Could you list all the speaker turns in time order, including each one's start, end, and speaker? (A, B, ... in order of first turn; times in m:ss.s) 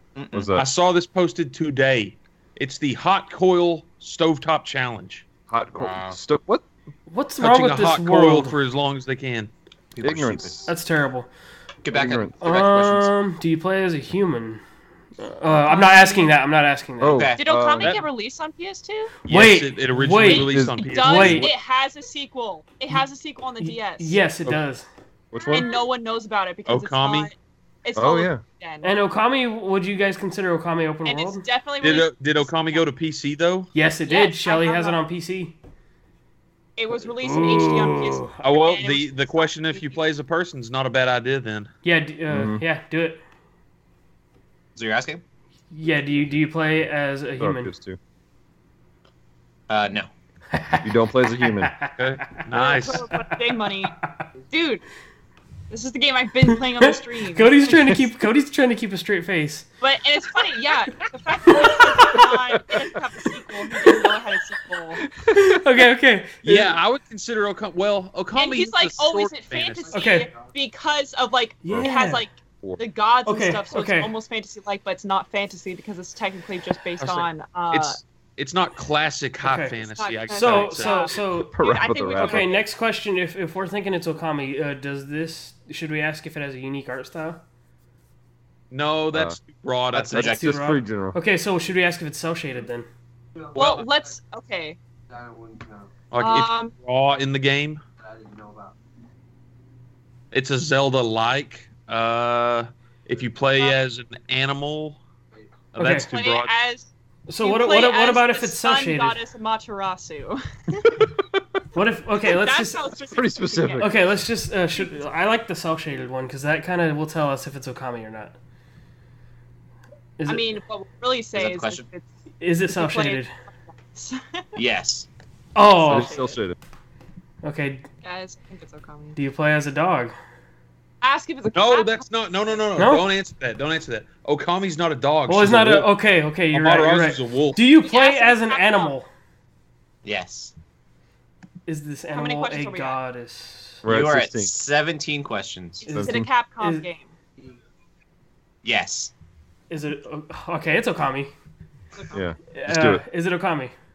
0:00.2-0:00.5 A
0:00.3-0:00.7 B
0:00.6-0:05.2 C
0:05.5-0:06.6 B
0:05.8-0:06.2 A
0:07.1-0:08.5 D
0:07.4-0:09.5 C
0:09.9-0:10.6 A
0:10.0-0:10.7 B
0:10.7-0:11.3 D
0:11.8-0:13.1 A
0:11.9-0:12.4 B
0:12.4-0:14.6 D
0:15.2-0:17.2 D
0:15.6-0:16.3 E
0:17.0-0:18.0 B
0:17.1-0:17.4 A
0:17.4-0:19.1 E
0:17.8-0:18.0 C
0:19.2-0:21.5 D
0:19.3-0:21.5 C
0:20.2-0:24.2 E
0:20.4-0:21.4 B
0:23.6-0:24.9 D
0:25.3-0:25.7 B
0:25.4-0:28.9 E
0:26.7-0:27.3 C
0:27.9-0:28.4 B
0:28.8-0:31.4 D
0:31.0-0:32.8 E
0:31.8-0:33.7 C
0:33.7-0:35.6 D
0:34.1-0:35.0 E
0:36.8-0:40.0 E
0:37.2-0:38.3 D
0:38.4-0:41.7 C
0:41.8-0:43.2 D
0:42.3-0:42.6 B
0:44.8-0:45.2 A
0:45.7-0:47.7 D
0:47.4-0:48.0 B
0:49.7-0:50.1 A
0:50.5-0:52.4 D
0:50.8-0:51.7 B
0:52.0-0:53.1 C
0:52.5-0:54.0 E
0:53.1-0:54.2 D
0:54.5-0:54.8 E
0:55.7-0:58.0 E
0:56.5-0:59.7 D
0:59.8-1:05.0 E
1:01.5-1:02.2 D
1:05.2-1:05.6 B
1:05.3-1:06.7 D
1:06.4-1:10.0 C
1:08.3-1:18.0 E
1:09.9-1:10.3 D
1:11.6-1:12.2 D
1:11.7-1:11.9 B
1:13.2-1:14.1 D
1:17.0-1:21.0 C
1:19.4-1:19.8 D
1:20.0-1:22.6 E
1:20.3-1:27.4 D
1:21.4-1:22.5 B
1:28.7-1:30.3 C
1:29.9-1:30.5 A
1:30.1-1:31.2 B
1:30.2-1:32.9 D
1:33.4-1:33.9 F
1:33.5-1:34.8 E
1:33.6-1:33.8 C
1:35.1-1:35.9 F
1:36.1-1:37.8 C
1:36.2-1:36.7 E
1:38.1-1:38.8 F
1:40.3-1:45.0 C
1:45.7-1:46.5 C
1:45.8-1:46.1 D
1:46.1-1:46.9 E
1:47.3-1:49.2 D
1:47.4-1:51.0 E
1:51.7-1:52.9 D
1:52.2-1:54.0 E
1:53.1-1:54.0 B
1:53.8-1:58.4 D
2:00.2-2:00.5 D
2:00.3-2:02.1 E
2:01.3-2:01.8 A
2:02.4-2:03.3 D
2:02.7-2:04.5 E
2:04.6-2:05.1 A
2:05.5-2:06.2 D
2:05.8-2:06.3 E
2:05.8-2:06.6 B
2:07.4-2:07.8 D
2:08.0-2:09.2 E
2:09.2-2:10.1 D
2:11.0-2:12.6 E
2:11.5-2:15.8 C
2:12.8-2:13.0 D
2:15.3-2:19.1 D
2:15.4-2:15.8 B
2:16.5-2:17.6 C
2:17.8-2:18.9 E
2:20.0-2:20.5 A
2:21.7-2:23.8 D
2:22.1-2:23.0 E
2:23.8-2:25.9 A
2:23.8-2:24.5 B
2:25.8-2:26.9 D
2:25.8-2:27.1 E
2:25.9-2:26.3 B
2:28.6-2:29.1 A
2:29.7-2:31.3 D
2:32.1-2:33.0 B
2:32.5-2:33.7 D